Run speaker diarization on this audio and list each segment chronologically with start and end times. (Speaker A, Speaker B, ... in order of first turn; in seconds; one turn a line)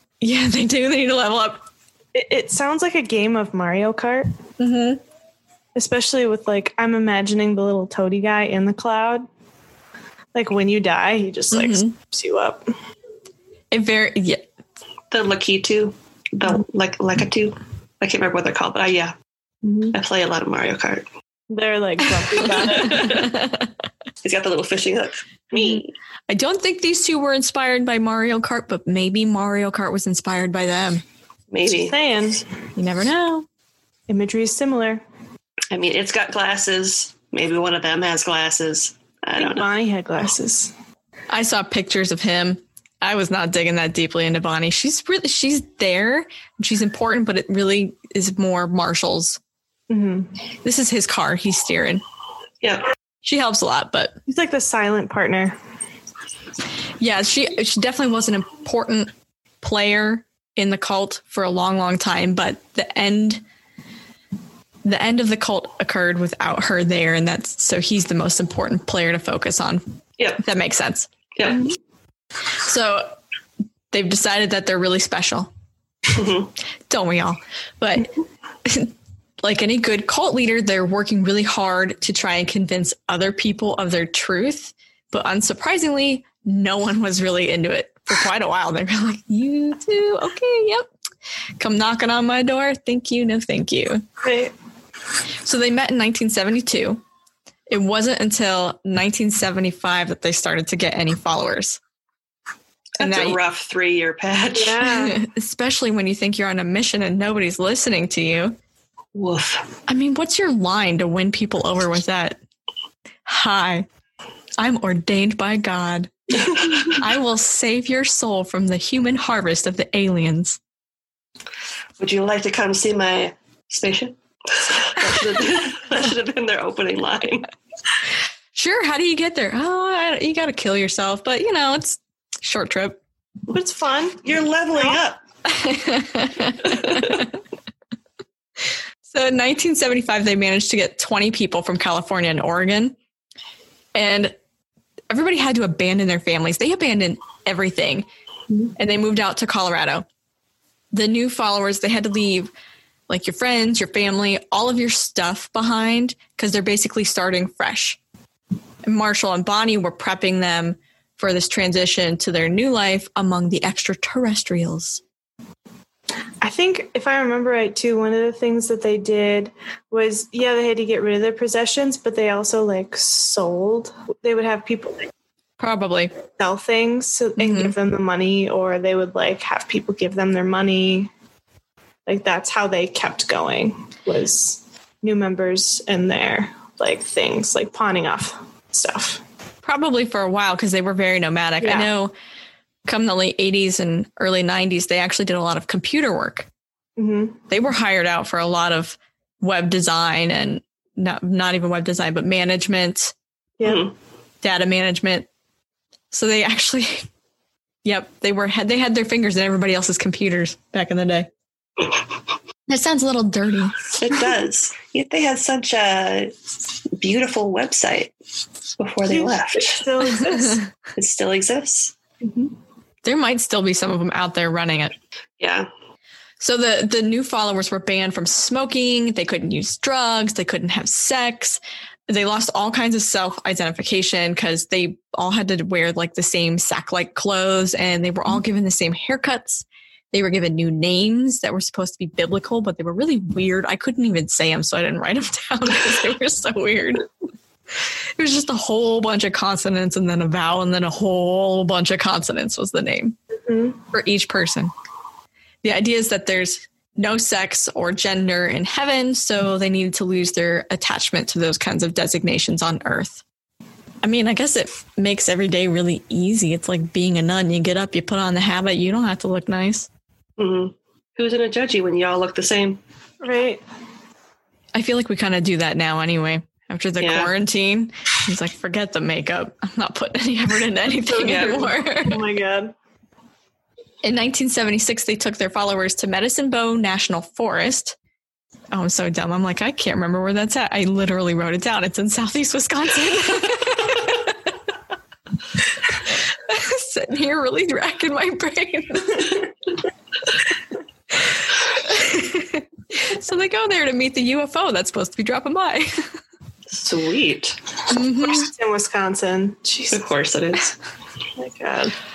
Speaker A: 0.2-1.6
Speaker B: 2.1-4.3
Speaker A: 4.6-5.0
Speaker B: 5.7-9.3
Speaker B: 10.3-12.7
Speaker A: 11.5-11.9
Speaker A: 13.7-14.5
Speaker C: 15.1-19.1
Speaker B: 19.6-19.9
Speaker C: 19.9-21.1
Speaker B: 21.5-23.2
Speaker C: 22.7-23.2
Speaker A: 22.7-23.7
Speaker C: 24.2-25.9
Speaker A: 25.5-31.0
Speaker C: 31.5-31.9
Speaker B: 31.7-32.4
Speaker A: 32.8-33.5
Speaker B: 34.1-35.0
Speaker C: 35.7-39.7
Speaker B: 39.4-40.7
Speaker A: 41.3-49.4
Speaker B: 49.9-50.3
Speaker A: 50.6-52.0
Speaker A: 53.2-54.2
Speaker B: 54.3-55.5
Speaker A: 57.0-59.1
Speaker A: 59.6-63.4
Speaker A: 64.8-71.1
Speaker C: 71.3-71.7
Speaker A: 72.6-73.2
Speaker A: 73.9-75.5
Speaker C: 76.1-76.5
Speaker A: 76.9-78.1
Speaker A: 78.6-90.9
Speaker A: 91.6-94.0
Speaker B: 94.2-94.5
Speaker A: 95.4-97.0
Speaker A: 97.7-101.8
Speaker C: 103.0-104.9
Speaker A: 103.0-103.4
Speaker B: 104.5-105.2
Speaker A: 104.9-108.6
Speaker C: 109.1-109.7
Speaker A: 109.9-112.4
Speaker A: 113.2-113.8
Speaker A: 114.6-120.6
Speaker C: 122.0-127.5
Speaker A: 128.5-133.0
Speaker B: 133.5-135.0
Speaker C: 134.2-135.2
Speaker A: 135.4-137.3
Speaker C: 136.8-137.2
Speaker A: 139.1-142.9
Speaker A: 143.9-144.3
Speaker A: 145.1-148.1
Speaker A: 148.8-150.0
Speaker A: 150.9-152.5
Speaker A: 153.1-158.0
Speaker A: 158.8-165.0
Speaker B: 166.4-175.1
Speaker A: 175.6-176.1
Speaker B: 176.3-181.1
Speaker A: 177.4-177.7
Speaker B: 182.1-189.2
Speaker A: 189.6-192.1
Speaker B: 191.6-191.9
Speaker A: 192.8-196.5
Speaker B: 197.0-197.4
Speaker A: 197.5-203.1
Speaker B: 203.6-203.9
Speaker C: 203.6-203.9
Speaker A: 204.4-205.3
Speaker A: 206.1-207.1
Speaker A: 207.8-211.3
Speaker A: 212.7-213.8
Speaker C: 213.9-216.4
Speaker C: 217.0-218.1
Speaker C: 218.8-219.8
Speaker B: 219.1-220.6
Speaker C: 220.9-221.9
Speaker B: 222.2-222.5
Speaker A: 223.0-224.9
Speaker C: 225.4-225.7
Speaker A: 226.4-247.1
Speaker A: 247.8-253.2
Speaker A: 253.9-254.7
Speaker A: 255.6-263.2
Speaker A: 264.0-269.9
Speaker C: 270.4-272.8
Speaker B: 273.2-273.6
Speaker A: 274.7-282.2
Speaker C: 277.0-277.3
Speaker B: 281.1-282.7
Speaker C: 281.2-281.7
Speaker A: 284.0-287.9
Speaker A: 288.7-294.4
Speaker A: 296.1-299.4
Speaker A: 301.2-306.1
Speaker C: 306.7-307.6
Speaker A: 307.9-308.5
Speaker B: 308.2-310.1
Speaker C: 309.9-310.8
Speaker B: 311.4-311.9